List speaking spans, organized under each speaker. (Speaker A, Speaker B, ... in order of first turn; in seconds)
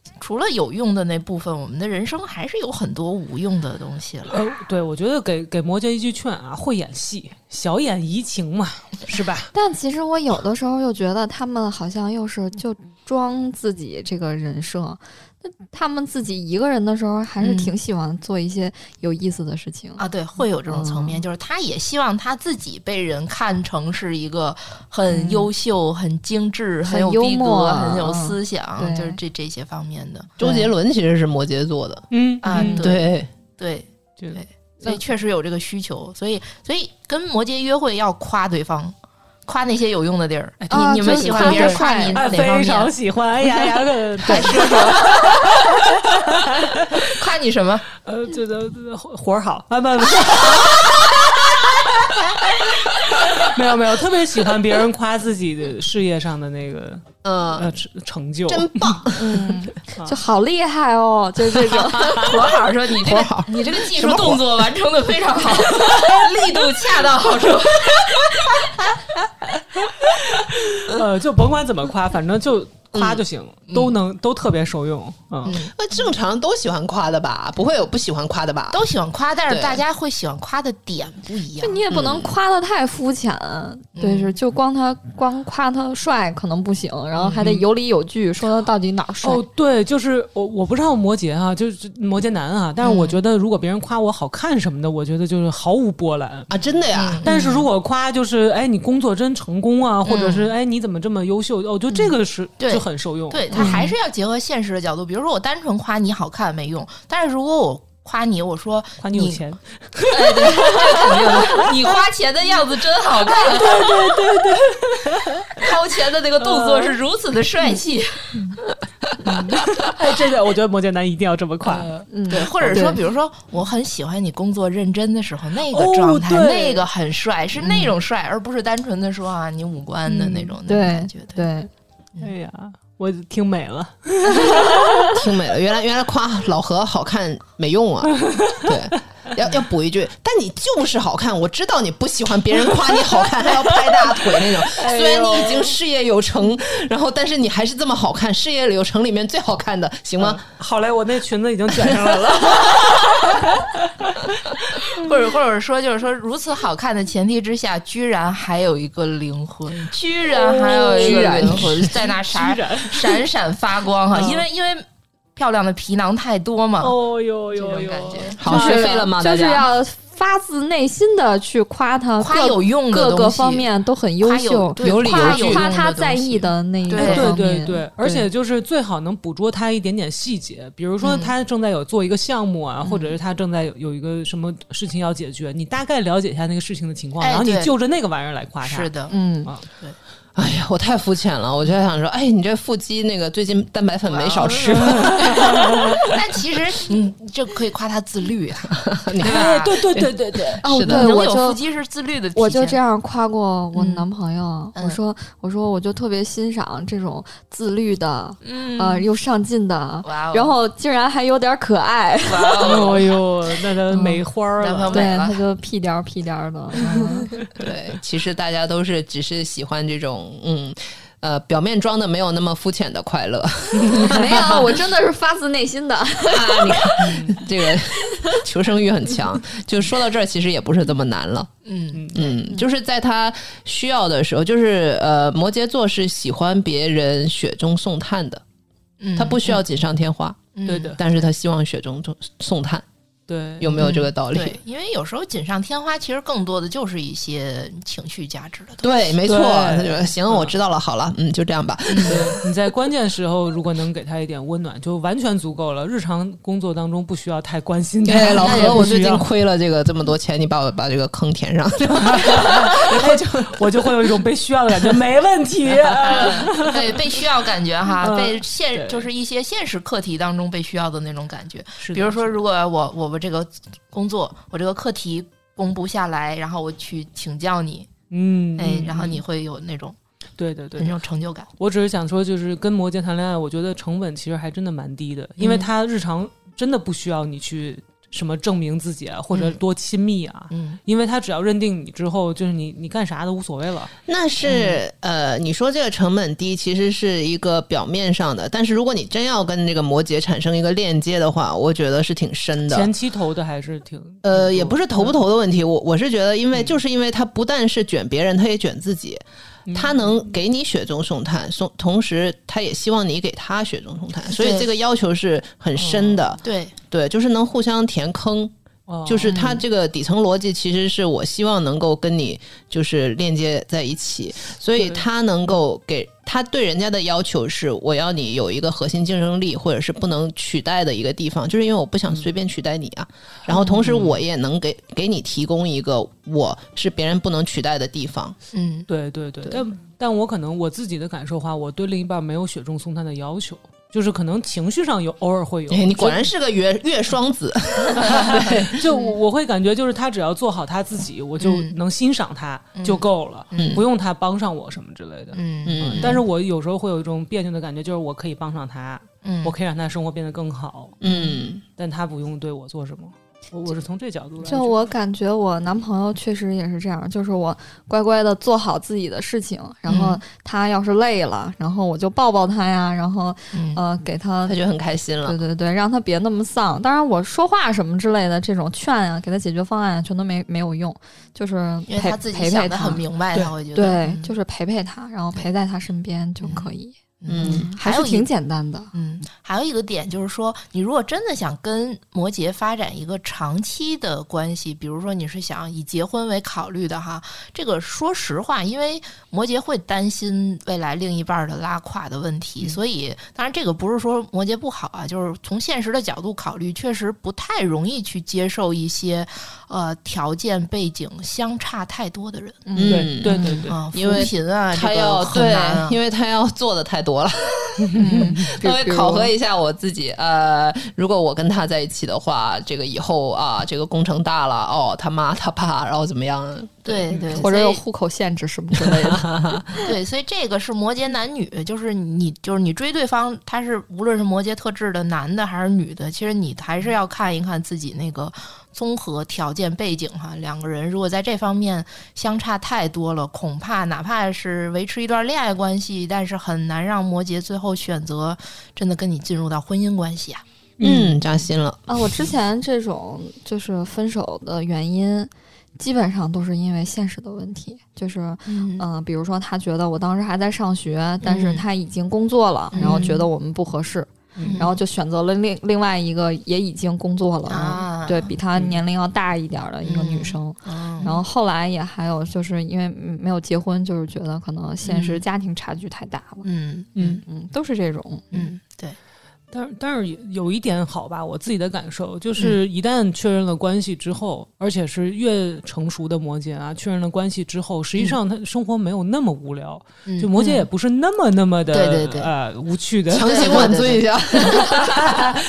Speaker A: 0.2-4.4, 17.4-17.7, 20.0-30.5, 32.4-39.0, 39.5-42.9, 44.2-45.4, 47.0-47.9, 62.1-68.7, 73.7-74.0, 75.5-75.7, 78.7-81.8, 84.0-84.3, 87.2-87.6, 92.8-93.2, 96.9-97.7, 100.0-100.5, 101.9-109.4, 110.1-114.2, 115.5-118.4, 121.7-131.5, 154.9-164.8, 165.4-167.0, 167.6-168.4, 172.2-173.7, 174.2-177.4, 181.0-181.3, 187.2-187.7, 188.6-189.1, 189.7-190.0, 194.1-195.0, 196.0-199.8, 200.8-202.8, 203.8-204.1, 208.4-209.1, 210.1-210.6, 212.2-213.1, 214.6-215.4, 231.7-232.4, 239.0-239.6, 240.6-241.0, 243.8-248.9, 251.9-252.2, 258.4-258.9, 266.0-277.9, 278.6-280.0, 280.8-281.5, 285.4-285.7, 289.3-289.6, 290.5-290.8, 294.4-294.8, 314.3-314.7, 316.4-316.8, 333.5-333.8, 338.5-338.9, 351.4-351.8, 352.8-353.8, 355.3-356.2, 359.2-359.5, 361.1-361.4, 369.9-370.2, 373.5-373.8, 381.9-384.4, 386.4-386.7, 387.2-388.3, 388.9-412.6, 413.7-416.0, 426.9-427.8, 429.8-450.4, 458.5-458.9, 461.2-461.6, 462.7-463.3, 464.4-464.8, 467.5-468.8, 469.8-471.2, 474.8-475.2, 476.4-477.2, 478.3-479.0, 490.1-490.7, 491.7-492.3, 493.2-495.0
Speaker B: 4.3-9.5, 32.1-32.9, 40.6-47.1, 48.0-59.0, 69.9-75.6, 89.2-96.5, 97.2-103.9, 109.0-111.7, 113.2-115.7, 116.4-117.0, 119.2-122.9, 125.7-126.9, 132.2-135.1, 138.3-138.8, 144.7-145.8, 150.2-155.1, 160.3-163.2, 164.1-164.4, 166.8-168.9, 176.9-188.9, 194.4-196.0, 199.2-200.6, 212.6-215.1, 223.8-224.1, 227.0-227.4, 231.9-232.3, 240.7-241.0, 243.3-243.9, 249.2-250.6, 252.1-259.3, 262.0-267.3, 268.0-269.1, 271.8-272.4, 278.1-279.2, 280.4-281.0, 281.6-293.9, 302.7-305.2, 306.5-306.8, 309.7-310.2, 315.8-316.4, 318.9-319.3, 324.8-325.1, 333.7-334.2, 338.9-346.3, 348.0-361.0, 361.8-364.9, 412.9-413.8, 417.9-418.2, 450.8-451.2, 464.4-464.6, 477.0-477.2, 479.5-493.8
Speaker C: 9.5-20.0, 20.7-21.2, 25.1-25.5, 26.9-29.2, 40.7-42.2, 59.1-62.2, 81.6-89.4, 103.6-103.9, 122.1-123.0, 130.1-131.7, 168.5-178.2, 182.8-183.2, 189.1-189.5, 200.6-201.6, 202.3-212.9, 213.9-214.2, 214.9-217.3, 224.0-226.9, 319.3-319.6, 364.4-374.6, 375.2-383.0, 383.8-388.9, 412.7-413.6, 417.9-419.3, 427.4-429.3, 451.9-476.5, 477.2-478.5
Speaker D: 30.4-32.1, 32.8-33.3, 57.2-57.7, 58.5-59.5, 62.9-64.7, 72.9-73.2, 75.5-78.9, 79.5-79.8, 81.9-82.3, 96.5-97.2, 135.1-150.4, 161.0-161.9, 168.4-169.7, 174.8-175.7, 190.4-196.0, 198.7-201.1, 217.6-224.8, 226.3-231.5, 232.1-238.4, 239.2-242.8, 243.6-244.6, 248.8-252.3, 258.1-264.1, 294.1-302.9, 304.2-309.2, 309.7-318.5, 319.1-338.4, 345.7-348.8, 353.6-353.8, 355.6-356.2, 361.0-361.6, 374.4-375.4, 387.3-387.7, 412.8-427.1, 428.8-429.6, 450.8-452.0, 493.1-495.4